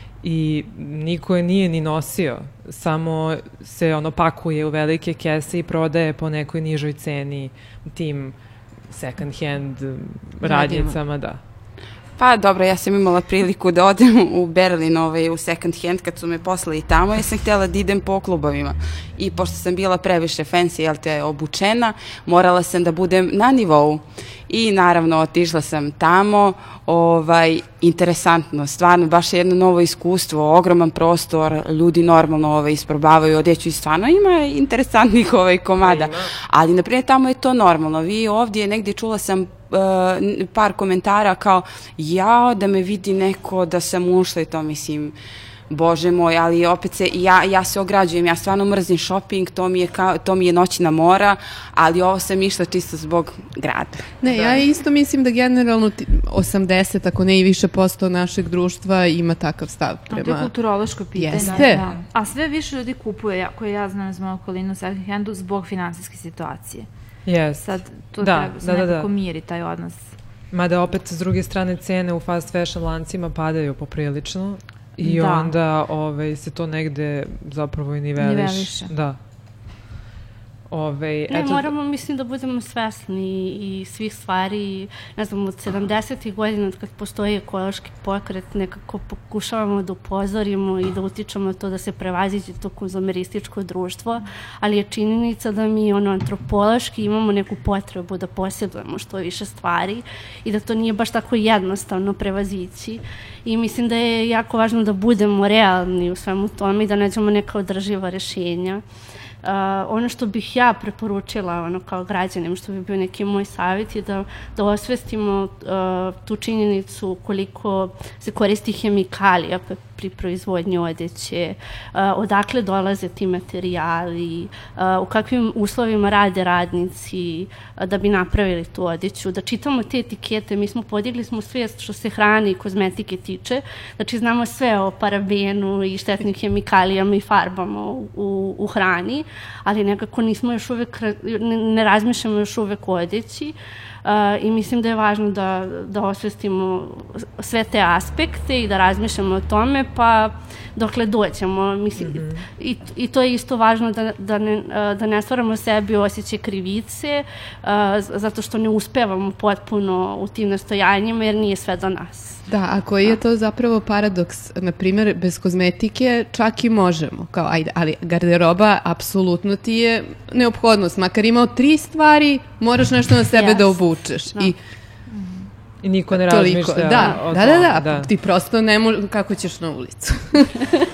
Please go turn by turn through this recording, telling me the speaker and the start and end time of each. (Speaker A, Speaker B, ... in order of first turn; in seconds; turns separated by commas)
Speaker A: 0.2-8.4, Speaker A: 8.9-11.4, Speaker B: 10.4-11.0, Speaker C: 12.2-45.1, Speaker A: 35.8-36.3, Speaker C: 45.7-54.1, Speaker B: 54.2-60.5, Speaker D: 60.1-66.9, Speaker B: 61.2-61.9, Speaker A: 67.3-69.1, Speaker D: 67.6-70.1, Speaker A: 70.5-79.2, Speaker D: 75.0-75.5, Speaker D: 78.2-78.9, Speaker A: 80.7-81.7, Speaker E: 81.3-108.8, Speaker E: 109.4-162.4, Speaker A: 152.0-152.4, Speaker B: 162.5-174.6, Speaker D: 173.3-173.7, Speaker D: 175.1-175.5, Speaker A: 175.8-178.1, Speaker B: 176.1-180.8